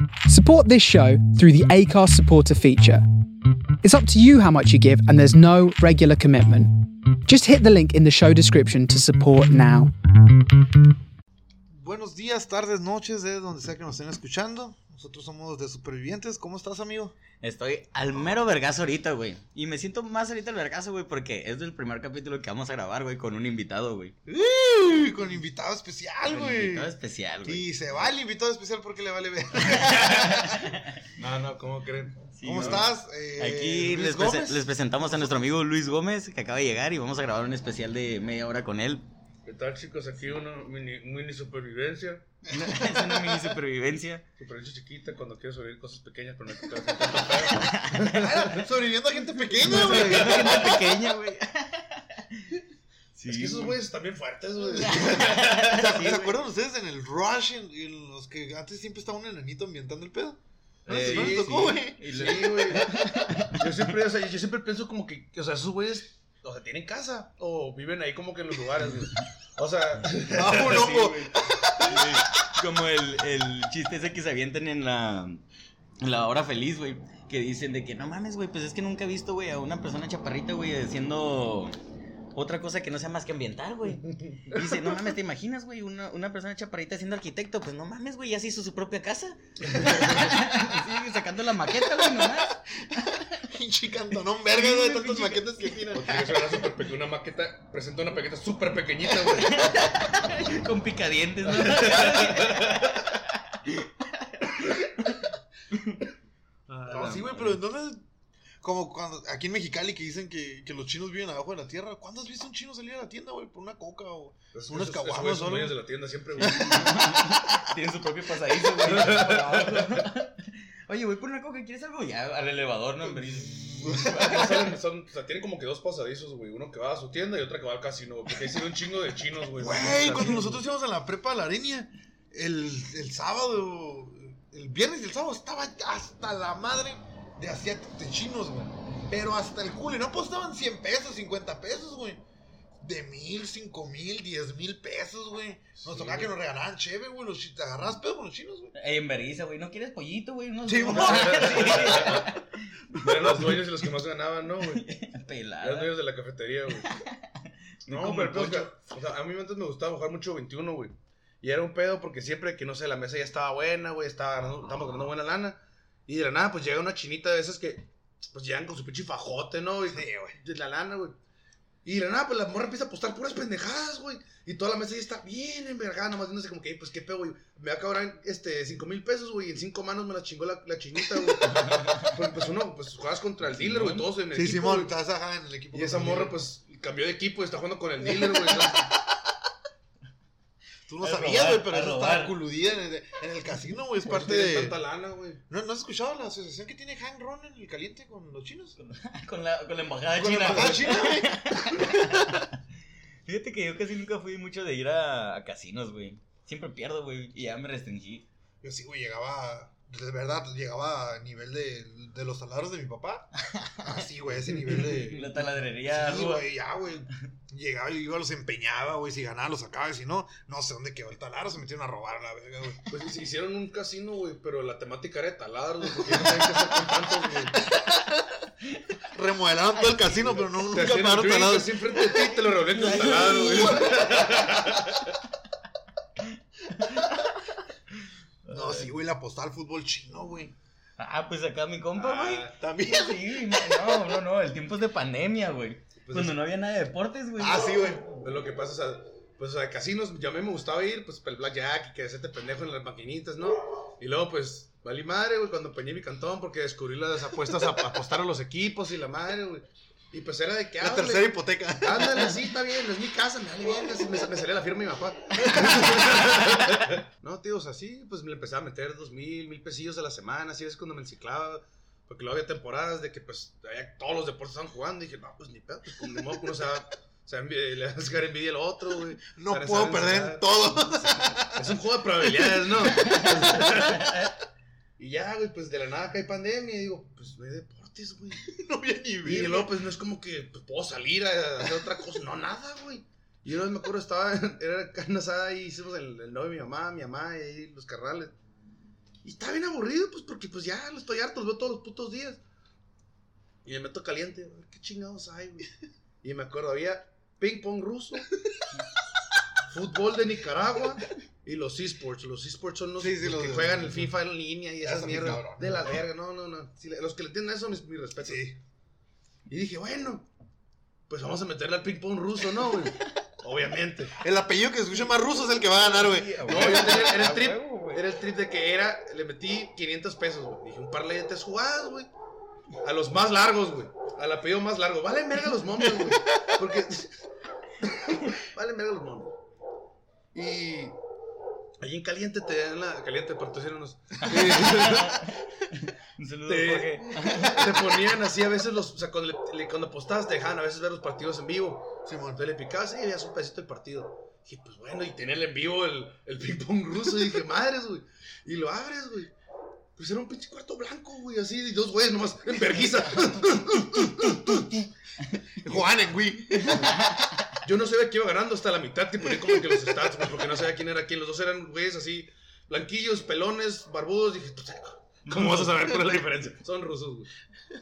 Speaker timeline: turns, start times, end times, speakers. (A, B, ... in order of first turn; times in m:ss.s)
0:00.3-0:03.0 A
0:03.8-0:09.9 A
0:11.7-0:17.2 B
0:17.4-0:24.2 C
0:24.3-0:26.9 B
0:26.3-0:27.7 C
0:27.4-0:30.7 B
0:29.7-0:31.0 C
0:31.2-0:32.8 D
0:32.3-0:39.1 C
0:32.4-0:34.7 B
0:39.5-0:42.2 D
0:42.4-0:43.6 B
0:42.5-0:44.2 C
0:44.4-0:48.7 D
0:47.5-0:48.2 C
0:48.1-0:50.9 B
0:49.6-0:50.9 D
0:49.6-0:52.6 C
0:53.2-0:53.8 C
0:53.3-0:56.2 D
0:54.6-0:56.3 C
0:55.7-1:03.1 B
1:00.9-1:10.9 D
1:00.9-1:03.8 C
1:10.3-1:12.2 B
1:10.5-1:15.4 C
1:16.0-1:21.8 C
1:22.3-1:33.2 C
1:24.0-1:24.4 D
1:24.6-1:24.9 B
1:31.8-1:36.6 B
1:34.4-1:35.9 C
1:35.9-1:39.8 D
1:39.1-1:39.7 B
1:39.4-1:45.2 C
1:41.5-1:42.8 D
1:45.7-1:46.0 C
1:46.7-1:47.6 C
1:46.9-1:48.0 B
1:48.6-1:55.8 B
1:54.5-1:57.0 D
1:56.4-1:57.4 B
1:56.4-2:04.6 C
1:58.7-2:00.1 D
2:03.2-2:10.6 D
2:03.8-2:04.7 B
2:09.6-2:22.2 B
2:22.8-2:28.7 B
2:25.8-2:26.3 D
2:28.8-2:33.6 C
2:30.6-2:32.3 B
2:30.9-2:32.3 D
2:32.9-2:34.8 D
2:34.7-2:35.9 C
2:35.6-2:37.0 D
2:36.8-2:38.7 C
2:37.9-2:51.2 D
2:49.9-2:50.4 B
2:51.8-3:04.9 D
3:01.5-3:02.2 C
3:03.5-3:04.0 C
3:04.3-3:06.4 B
3:05.7-3:09.0 D
3:08.0-3:09.4 B
3:10.9-3:14.8 B
3:11.0-3:12.4 C
3:14.0-3:15.4 D
3:15.5-3:18.8 B
3:18.8-3:22.6 C
3:20.1-3:22.0 B
3:20.5-3:21.1 D
3:23.3-3:28.3 C
3:28.6-3:33.3 B
3:33.5-3:36.5 C
3:33.8-3:42.8 B
3:42.9-3:47.6 D
3:45.9-3:48.5 B
3:49.1-3:54.3 B
3:50.6-3:55.1 D
3:52.7-3:53.9 C
3:56.7-3:57.5 C
3:58.5-3:58.9 C
3:58.5-4:00.6 B
4:01.0-4:07.7 C
4:02.0-4:02.6 D
4:02.5-4:04.2 B
4:06.0-4:06.4 D
4:07.4-4:08.2 B
4:08.1-4:40.5 D
4:20.8-4:22.4 B
4:25.4-4:26.6 B
4:39.3-4:43.6 B
4:41.5-4:44.3 D
4:45.0-4:48.5 D
4:48.4-4:49.7 B
4:49.2-4:58.3 D
4:59.2-5:02.4 D
5:03.6-5:05.7 D
5:06.2-5:08.3 D
5:09.7-5:18.5 D
5:13.0-5:14.1 B
5:14.8-5:16.0 B
5:18.2-5:18.6 B
5:19.5-5:20.3 D
5:21.1-5:24.1 D
5:24.2-5:27.1 B
5:25.8-5:28.0 C
5:26.5-5:32.1 D
5:32.8-5:37.2 D
5:36.0-5:36.5 B
5:37.8-5:39.3 D
5:40.3-5:41.0 D
5:41.8-5:45.3 D
5:44.2-5:47.8 C
5:46.5-5:59.3 D
5:52.0-5:52.4 B
6:00.0-6:04.8 D
6:05.6-6:07.0 B
6:06.6-6:07.6 C
6:07.6-6:17.3 D
6:15.3-6:15.7 C